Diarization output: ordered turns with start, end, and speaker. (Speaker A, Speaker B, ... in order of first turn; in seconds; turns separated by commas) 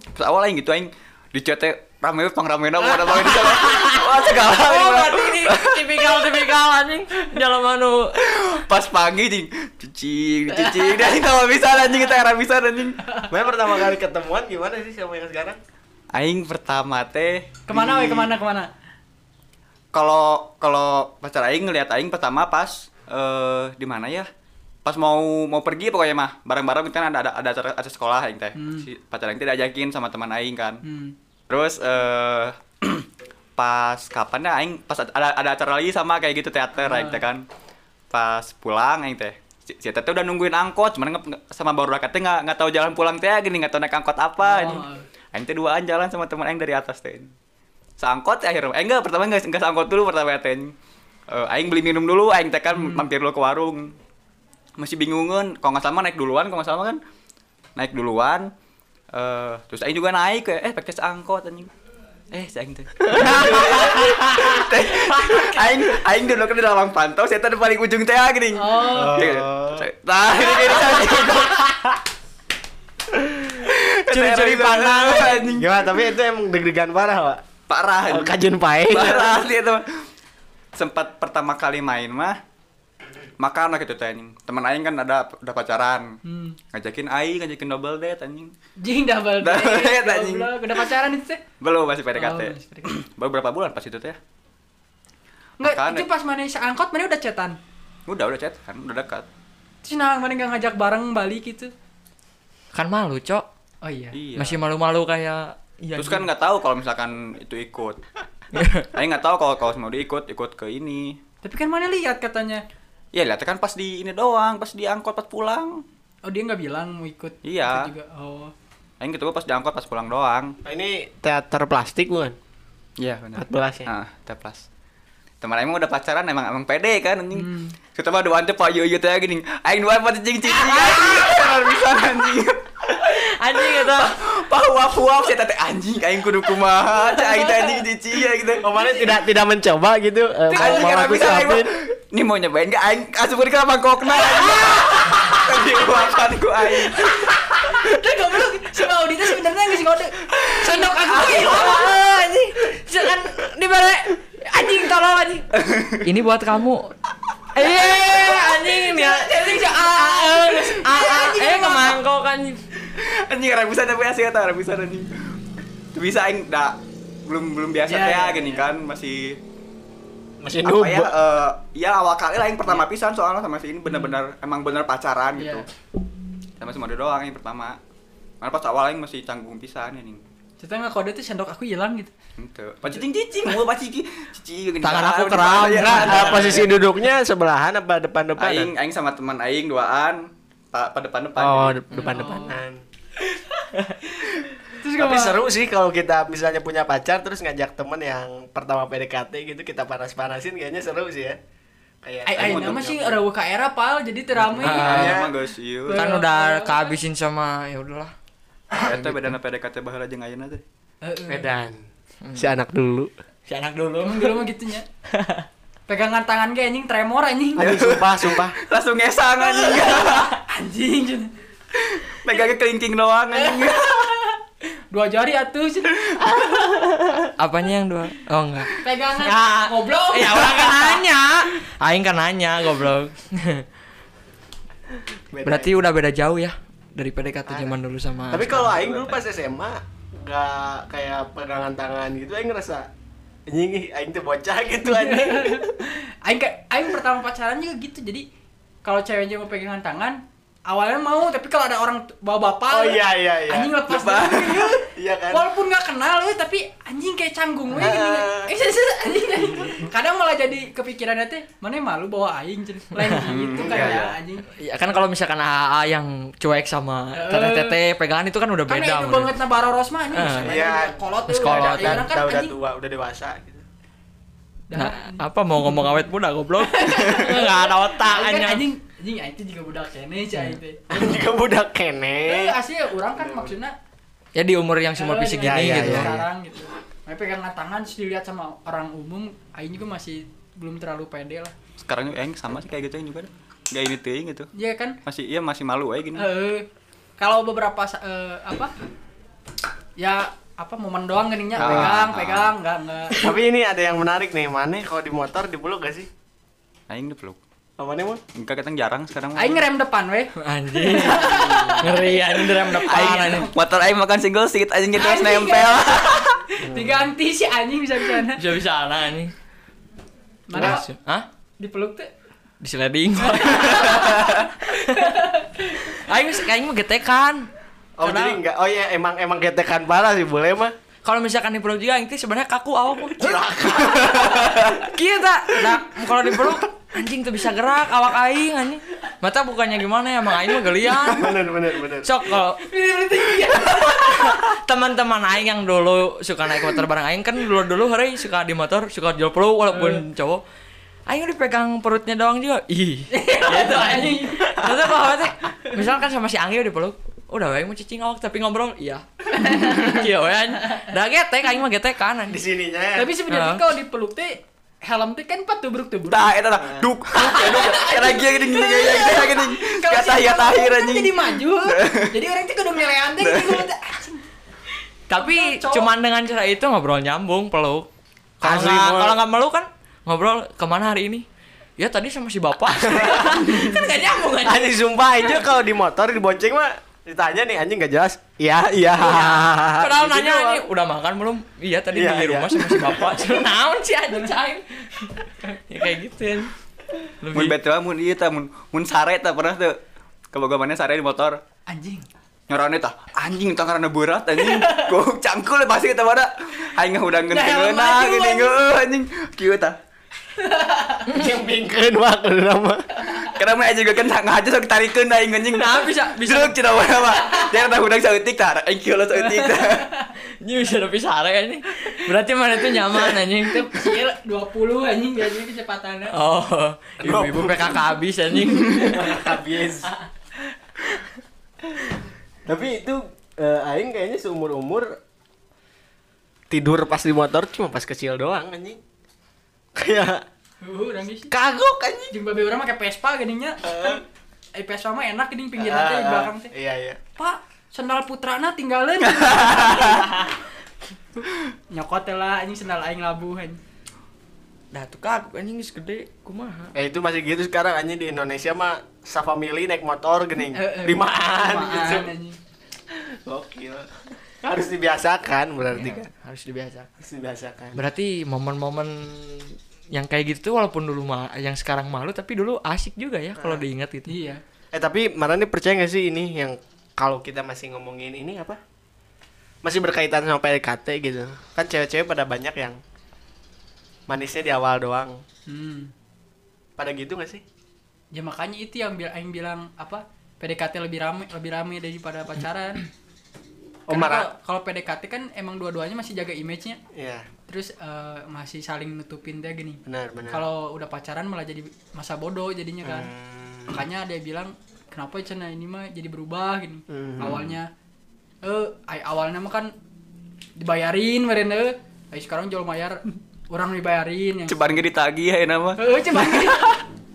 Speaker A: 0.1-6.4, Speaker B: 3.0-8.1, Speaker A: 8.2-13.0, Speaker C: 10.6-10.9, Speaker D: 13.3-15.6, Speaker A: 16.1-17.5, Speaker C: 17.7-18.7, Speaker D: 17.7-18.4, Speaker A: 19.9-24.3, Speaker A: 24.8-30.8, Speaker C: 28.6-28.9, Speaker C: 30.8-31.1, Speaker A: 31.5-37.4, Speaker C: 36.8-37.2, Speaker A: 38.1-47.3, Speaker C: 44.4-45.0, Speaker A: 48.0-50.7, Speaker A: 51.3-53.9, Speaker C: 52.7-53.1, Speaker A: 54.8-57.0, Speaker A: 57.8-58.5, Speaker A: 59.1-61.7, Speaker A: 62.3-71.8, Speaker D: 63.1-64.1, Speaker B: 63.2-63.8, Speaker C: 68.5-69.2, Speaker D: 68.9-69.9, Speaker D: 70.5-71.0, Speaker A: 73.6-76.0, Speaker B: 74.0-75.4, Speaker D: 75.2-77.4, Speaker A: 77.7-78.3, Speaker D: 78.1-79.4, Speaker A: 78.9-79.8, Speaker A: 80.7-82.4, Speaker A: 83.4-86.1, Speaker C: 86.2-86.6, Speaker A: 86.7-88.5, Speaker C: 88.8-91.4, Speaker A: 89.4-90.8, Speaker A: 91.6-94.2, Speaker C: 92.1-92.9, Speaker C: 95.6-97.6, Speaker A: 95.6-96.0, Speaker A: 98.1-99.2, Speaker C: 99.8-101.7, Speaker B: 102.7-103.5, Speaker C: 103.8-104.2, Speaker A: 104.1-104.6, Speaker B: 104.3-106.3, Speaker A: 106.0-108.0, Speaker B: 108.5-108.9, Speaker A: 108.9-111.2, Speaker C: 111.4-112.6, Speaker A: 113.1-115.8, Speaker C: 116.2-118.5, Speaker A: 117.4-117.9, Speaker A: 119.0-120.5, Speaker D: 120.6-122.3, Speaker A: 123.0-124.6, Speaker D: 123.3-123.9, Speaker A: 125.4-138.7, Speaker C: 127.3-127.8, Speaker B: 130.5-132.1, Speaker B: 133.0-134.4, Speaker C: 137.2-137.7, Speaker D: 138.6-141.7, Speaker C: 138.8-139.1, Speaker C: 140.5-141.2, Speaker A: 140.5-147.4, Speaker C: 144.3-145.5, Speaker C: 147.0-152.1, Speaker B: 150.6-155.4, Speaker A: 155.5-156.1, Speaker B: 156.0-156.9, Speaker B: 157.5-162.6, Speaker C: 158.3-162.0, Speaker A: 162.9-165.1, Speaker A: 165.9-169.4, Speaker C: 167.9-168.7, Speaker D: 170.4-171.1, Speaker A: 170.6-175.7, Speaker C: 173.9-174.2, Speaker C: 175.3-175.6, Speaker A: 176.6-177.8, Speaker A: 178.4-180.2, Speaker C: 180.6-182.1, Speaker A: 182.4-186.8, Speaker B: 184.8-186.5, Speaker D: 185.9-188.7, Speaker A: 188.4-191.8, Speaker D: 191.4-192.8, Speaker C: 191.9-192.6, Speaker C: 194.7-195.4, Speaker D: 194.9-201.4, Speaker D: 202.0-203.2, Speaker C: 202.2-205.2, Speaker A: 202.3-202.9, Speaker A: 204.6-206.1, Speaker B: 204.6-205.2, Speaker D: 204.6-205.4, Speaker C: 205.8-206.9, Speaker B: 205.9-208.1, Speaker A: 208.8-210.6, Speaker B: 208.9-209.3, Speaker C: 211.0-211.4, Speaker D: 211.3-211.8, Speaker B: 212.2-212.5, Speaker D: 212.3-213.1, Speaker B: 213.5-214.5, Speaker C: 214.0-214.8, Speaker B: 215.1-215.5, Speaker C: 215.9-217.6, Speaker D: 217.6-218.6, Speaker A: 217.6-220.3, Speaker C: 219.4-221.3, Speaker A: 221.7-224.2, Speaker C: 223.3-224.4, Speaker C: 224.9-226.4, Speaker D: 226.3-227.3, Speaker B: 227.4-233.7, Speaker C: 228.8-231.0, Speaker D: 235.3-235.8, Speaker B: 235.4-239.1, Speaker D: 237.5-237.8, Speaker D: 238.3-242.9, Speaker D: 243.5-245.8, Speaker C: 244.8-248.2, Speaker C: 248.8-264.5, Speaker D: 252.7-253.8, Speaker A: 253.9-254.8, Speaker D: 254.9-255.5, Speaker D: 257.8-258.5, Speaker B: 262.9-263.3, Speaker A: 263.3-264.1, Speaker D: 263.5-264.1, Speaker B: 264.5-269.3, Speaker C: 267.1-267.8, Speaker C: 268.7-272.5, Speaker B: 270.1-270.6, Speaker D: 270.3-273.6, Speaker B: 271.3-272.1, Speaker C: 274.7-275.2, Speaker B: 274.7-278.6, Speaker C: 276.6-280.8, Speaker D: 280.9-282.6, Speaker C: 282.3-283.8, Speaker D: 283.1-283.5, Speaker B: 284.3-286.1, Speaker C: 284.9-291.5, Speaker D: 285.4-286.2, Speaker A: 291.8-294.5, Speaker C: 294.5-295.0, Speaker A: 295.0-296.3, Speaker C: 296.1-296.7, Speaker C: 297.2-298.7, Speaker C: 300.0-303.2, Speaker A: 301.6-302.5, Speaker D: 301.6-302.0, Speaker D: 303.1-306.1, Speaker A: 306.9-307.4, Speaker D: 307.8-308.2, Speaker A: 308.3-309.6, Speaker C: 309.4-313.5, Speaker B: 310.4-313.5, Speaker A: 312.8-316.4, Speaker C: 314.9-318.5, Speaker D: 316.6-317.1, Speaker B: 318.3-319.3, Speaker C: 320.5-320.8, Speaker B: 320.5-321.3, Speaker C: 321.6-322.1, Speaker B: 322.6-327.5, Speaker C: 323.2-325.9, Speaker A: 323.9-324.4, Speaker D: 328.0-330.7, Speaker C: 328.0-328.4, Speaker B: 331.0-333.4, Speaker D: 333.1-334.8, Speaker B: 334.1-341.4, Speaker A: 334.1-334.6, Speaker D: 341.0-342.2, Speaker B: 342.0-342.6, Speaker C: 342.6-344.4, Speaker B: 343.4-350.4, Speaker C: 349.7-350.0, Speaker B: 351.1-362.4, Speaker C: 353.1-354.7, Speaker D: 354.4-355.1, Speaker C: 359.3-360.0, Speaker D: 362.3-363.1, Speaker C: 363.0-366.3, Speaker B: 363.3-363.6, Speaker A: 366.1-372.1, Speaker D: 366.6-366.9, Speaker C: 367.1-374.2, Speaker A: 373.2-373.7, Speaker B: 375.1-377.9, Speaker C: 375.1-375.9, Speaker B: 378.4-381.2, Speaker D: 378.4-379.2, Speaker B: 381.8-384.8, Speaker D: 382.7-383.6, Speaker C: 383.3-383.8, Speaker D: 384.4-390.6, Speaker B: 389.0-396.5, Speaker D: 391.9-393.2, Speaker B: 397.2-397.6, Speaker A: 397.3-399.8, Speaker A: 400.3-401.4, Speaker C: 401.7-402.1, Speaker A: 402.5-409.8, Speaker C: 404.4-404.9, Speaker C: 407.3-408.5, Speaker C: 410.4-411.1, Speaker D: 411.0-413.0, Speaker B: 411.1-411.3, Speaker A: 413.2-419.9, Speaker B: 415.5-416.6, Speaker C: 419.2-420.1, Speaker B: 420.2-424.0, Speaker C: 423.4-426.1, Speaker B: 426.1-429.4, Speaker D: 427.0-427.8, Speaker D: 428.7-429.9, Speaker D: 431.7-435.0, Speaker D: 436.5-438.8, Speaker D: 439.8-440.2, Speaker C: 440.6-441.3, Speaker D: 441.3-442.1, Speaker C: 442.1-444.0, Speaker D: 443.6-444.0, Speaker C: 444.6-446.5, Speaker D: 445.6-447.0, Speaker C: 447.2-450.3, Speaker A: 449.3-450.0, Speaker C: 451.7-453.6, Speaker B: 454.7-456.7, Speaker D: 456.7-462.1, Speaker C: 460.5-462.4, Speaker D: 462.9-466.1, Speaker B: 465.7-466.9, Speaker D: 467.0-467.8, Speaker B: 467.7-474.1, Speaker D: 473.4-473.6, Speaker C: 474.1-474.4, Speaker D: 474.7-478.6, Speaker D: 479.6-482.8, Speaker D: 484.1-485.2, Speaker C: 485.5-485.9, Speaker D: 486.8-487.4, Speaker C: 488.1-492.8, Speaker D: 493.9-494.3, Speaker C: 493.9-496.8, Speaker D: 496.9-497.3, Speaker C: 497.5-503.1, Speaker D: 499.9-500.4, Speaker D: 502.8-503.8, Speaker C: 503.7-507.7, Speaker D: 506.9-507.5, Speaker C: 508.4-509.7, Speaker C: 510.6-514.6, Speaker A: 514.5-515.8, Speaker C: 515.8-516.8